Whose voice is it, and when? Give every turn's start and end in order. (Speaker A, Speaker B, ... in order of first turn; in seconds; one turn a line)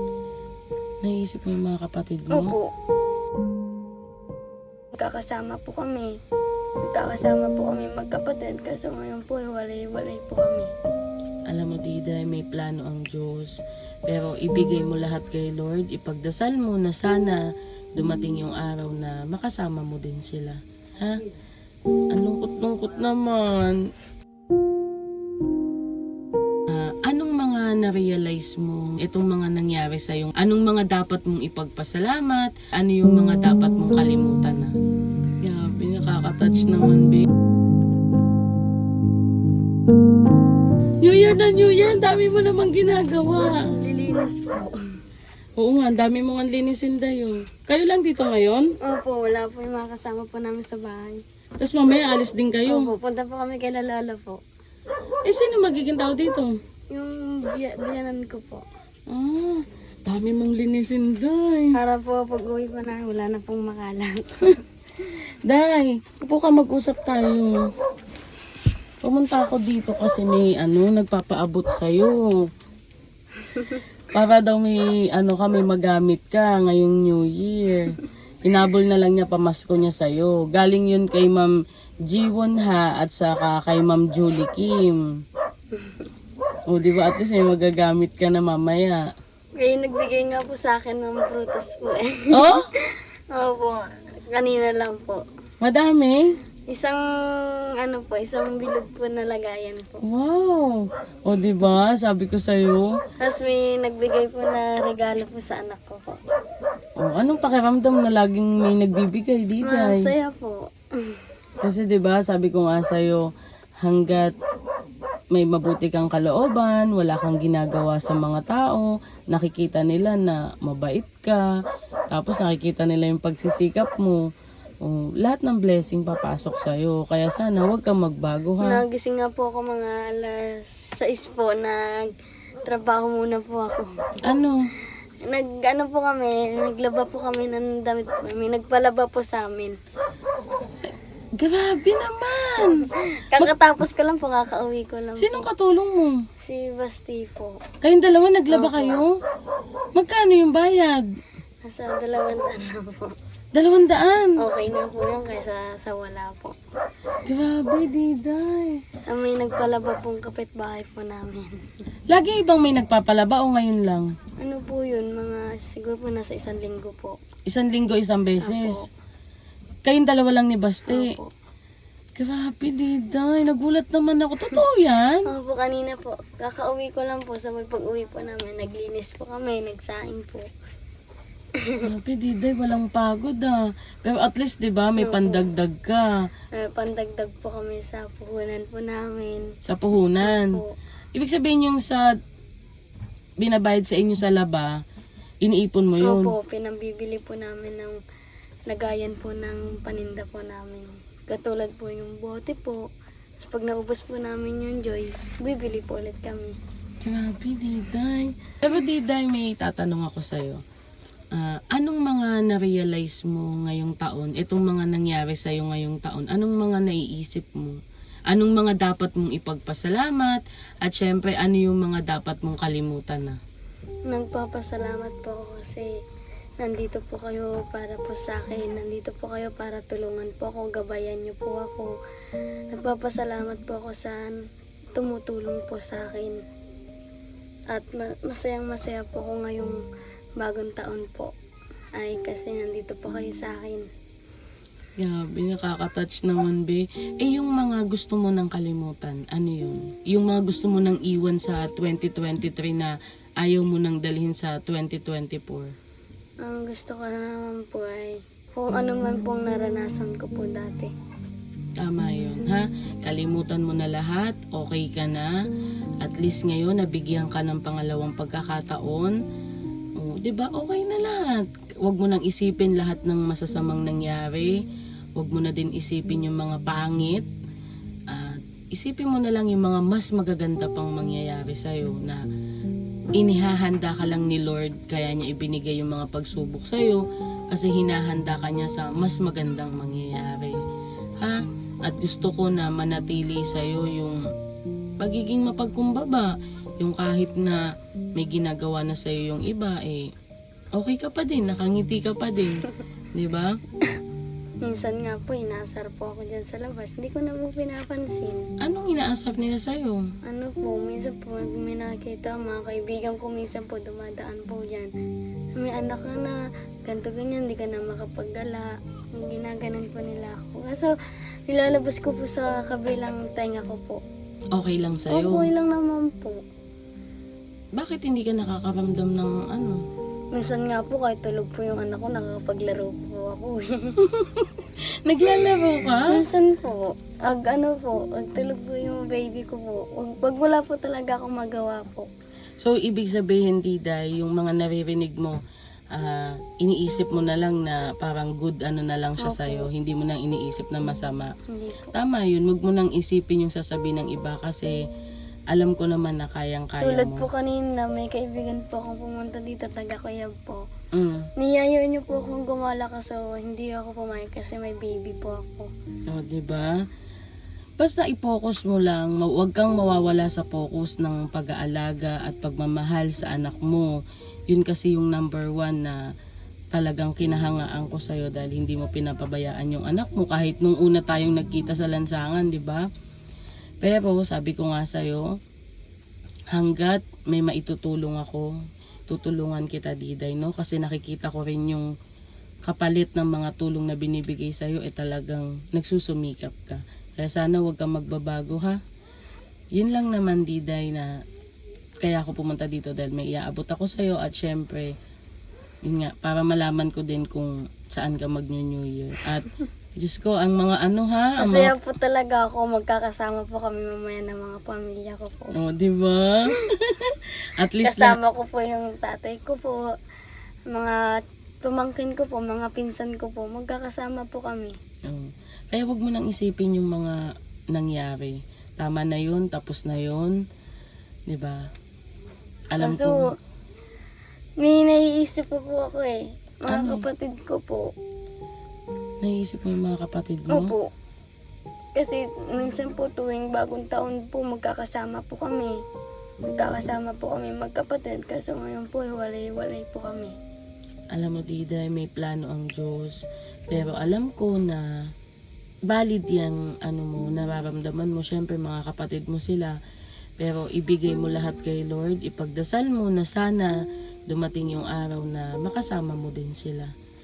Speaker A: 1.0-2.5
Speaker B: 2.3-2.7
Speaker B: 4.9-6.1
Speaker B: 6.9-10.7
Speaker A: 11.5-17.4
Speaker A: 17.9-21.2
Speaker A: 22.1-23.8
Speaker A: 26.7-34.7
Speaker A: 35.4-37.3
Speaker A: 41.0-43.7
Speaker B: 43.7-44.8
Speaker A: 45.6-48.7
Speaker B: 48.8-51.2
Speaker A: 51.6-52.9
Speaker B: 52.7-54.4
Speaker A: 55.2-56.5
Speaker B: 56.9-58.6
Speaker A: 59.1-61.7
Speaker B: 61.7-64.6
Speaker A: 65.4-67.5
Speaker A: 69.0-72.4
Speaker A: 74.1-81.5
Speaker A: 82.1-85.0
Speaker B: 85.7-86.0
Speaker A: 86.7-89.0
Speaker B: 89.6-92.5
Speaker A: 92.3-92.7
Speaker B: 93.3-95.2
Speaker A: 95.6-96.3
Speaker B: 96.7-100.0
Speaker A: 100.0-102.9
Speaker B: 103.2-106.2
Speaker A: 107.0-110.1
Speaker B: 109.6-111.2
Speaker A: 111.6-113.2
Speaker A: 113.8-114.3
Speaker A: 115.3-121.4
Speaker A: 122.1-124.2
Speaker A: 124.8-128.8
Speaker B: 128.6-132.1
Speaker B: 132.7-133.9
Speaker A: 134.2-134.6
Speaker B: 135.2-139.8
Speaker A: 141.4-143.5
Speaker B: 143.2-145.5
Speaker A: 145.2-146.2
Speaker B: 146.4-147.6
Speaker A: 147.8-149.2
Speaker B: 148.5-149.0
Speaker A: 149.9-151.0
Speaker B: 151.6-153.1
Speaker A: 153.5-154.4
Speaker B: 154.4-156.5
Speaker A: 157.2-158.8
Speaker B: 159.1-161.6
Speaker A: 162.1-164.1
Speaker B: 164.4-167.2
Speaker A: 167.5-168.8
Speaker B: 168.4-168.8
Speaker A: 169.8-171.1
Speaker B: 170.9-171.3
Speaker A: 172.2-175.2
Speaker B: 175.3-180.4
Speaker A: 181.8-186.1
Speaker B: 184.9-185.4
Speaker B: 186.5-189.5
Speaker A: 189.7-190.6
Speaker B: 190.2-190.7
Speaker A: 191.1-192.1
Speaker A: 193.4-194.7
Speaker A: 195.4-196.3
Speaker B: 196.0-198.0
Speaker B: 198.7-202.8
Speaker B: 203.4-206.5
Speaker A: 207.0-210.6
Speaker A: 211.3-223.4
Speaker B: 224.1-225.9
Speaker B: 226.6-231.9
Speaker B: 232.7-234.4
Speaker B: 234.9-236.4
Speaker B: 237.7-239.8
Speaker B: 240.4-241.3
Speaker B: 241.9-243.9
Speaker A: 245.0-255.7
Speaker B: 256.4-260.9
Speaker A: 261.8-265.3
Speaker A: 266.0-269.1
Speaker A: 269.9-274.6
Speaker A: 275.1-277.2
Speaker A: 278.1-282.2
Speaker A: 283.1-290.6
Speaker A: 291.2-294.2
Speaker A: 295.0-297.6
Speaker A: 298.1-300.0
Speaker A: 300.8-303.6
Speaker B: 304.6-308.4
Speaker A: 308.6-310.0
Speaker B: 310.2-314.9
Speaker B: 315.6-320.9
Speaker B: 321.5-324.0
Speaker A: 324.5-325.5
Speaker B: 325.1-326.4
Speaker A: 327.8-329.8
Speaker B: 330.3-334.0
Speaker A: 334.0-336.2
Speaker B: 336.1-342.1
Speaker A: 342.6-345.4
Speaker A: 345.9-351.3
Speaker B: 349.2-349.7
Speaker B: 351.5-351.9
Speaker A: 351.9-354.8
Speaker A: 355.5-357.2
Speaker B: 356.8-360.6
Speaker A: 360.9-361.2
Speaker B: 361.4-365.7
Speaker A: 366.1-366.7
Speaker A: 367.8-374.0
Speaker A: 374.5-376.0
Speaker A: 376.7-382.8
Speaker A: 383.8-385.3
Speaker A: 386.5-388.5
Speaker A: 389.1-391.9
Speaker A: 392.6-398.8
Speaker A: 399.7-401.1
Speaker A: 402.0-404.9
Speaker A: 405.8-411.7
Speaker B: 411.4-415.5
Speaker A: 415.5-418.2
Speaker B: 417.8-419.9
Speaker B: 420.7-424.7
Speaker A: 425.1-427.2
Speaker A: 427.7-430.3
Speaker A: 431.3-431.6
Speaker A: 432.7-433.2
Speaker B: 432.8-433.2
Speaker B: 434.6-437.9
Speaker A: 436.7-437.0
Speaker A: 439.2-440.7
Speaker B: 440.5-440.9
Speaker B: 441.9-445.8
Speaker B: 446.5-450.3
Speaker A: 451.1-453.2
Speaker A: 453.7-454.8
Speaker A: 455.9-459.8
Speaker A: 460.4-463.7
Speaker A: 464.3-466.9